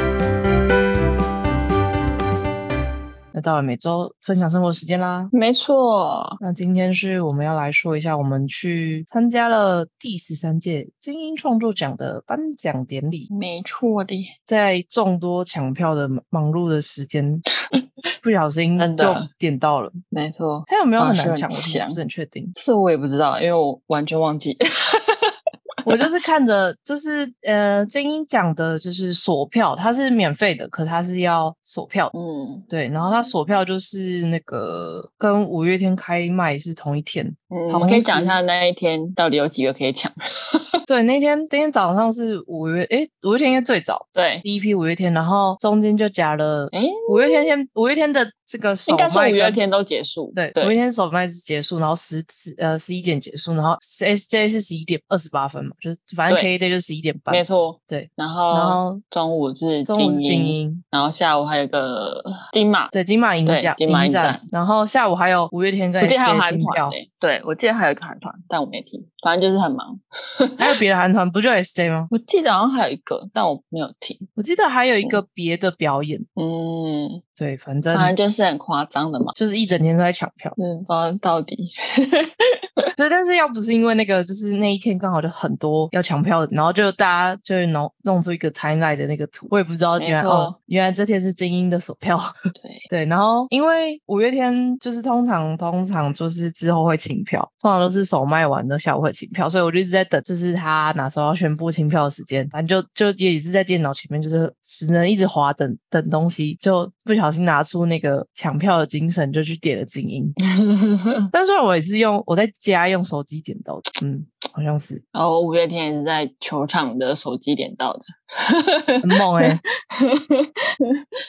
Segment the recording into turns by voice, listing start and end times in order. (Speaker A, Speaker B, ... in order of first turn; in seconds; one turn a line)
Speaker A: 3.3-5.3
Speaker B: 5.3-6.4
Speaker A: 6.4-13.3
Speaker B: 13.3-14.3
Speaker A: 14.4-17.4
Speaker A: 18.2-20.0
Speaker B: 18.8-19.2
Speaker B: 20.1-22.0
Speaker A: 20.7-22.5
Speaker B: 22.5-25.4
Speaker A: 25.8-32.1
Speaker B: 32.1-32.7
Speaker A: 32.7-38.4
Speaker B: 37.5-40.7
Speaker A: 40.9-49.6
Speaker B: 44.1-44.4
Speaker B: 46.7-47.5
Speaker B: 48.9-50.8
Speaker A: 50.3-59.0
Speaker B: 57.3-62.9
Speaker A: 59.8-60.8
Speaker A: 62.9-67.0
Speaker B: 63.5-64.4
Speaker B: 66.0-70.7
Speaker A: 70.6-72.1
Speaker B: 72.1-74.3
Speaker A: 74.3-76.2
Speaker B: 76.3-77.2
Speaker A: 77.3-78.1
Speaker B: 77.9-79.3
Speaker A: 79.3-80.6
Speaker B: 80.6-82.8
Speaker A: 83.0-92.3
Speaker B: 90.0-90.5
Speaker B: 92.5-92.9
Speaker A: 92.9-110.3
Speaker B: 110.5-111.2
Speaker A: 111.3-115.0
Speaker B: 115.1-121.0
Speaker A: 119.0-119.6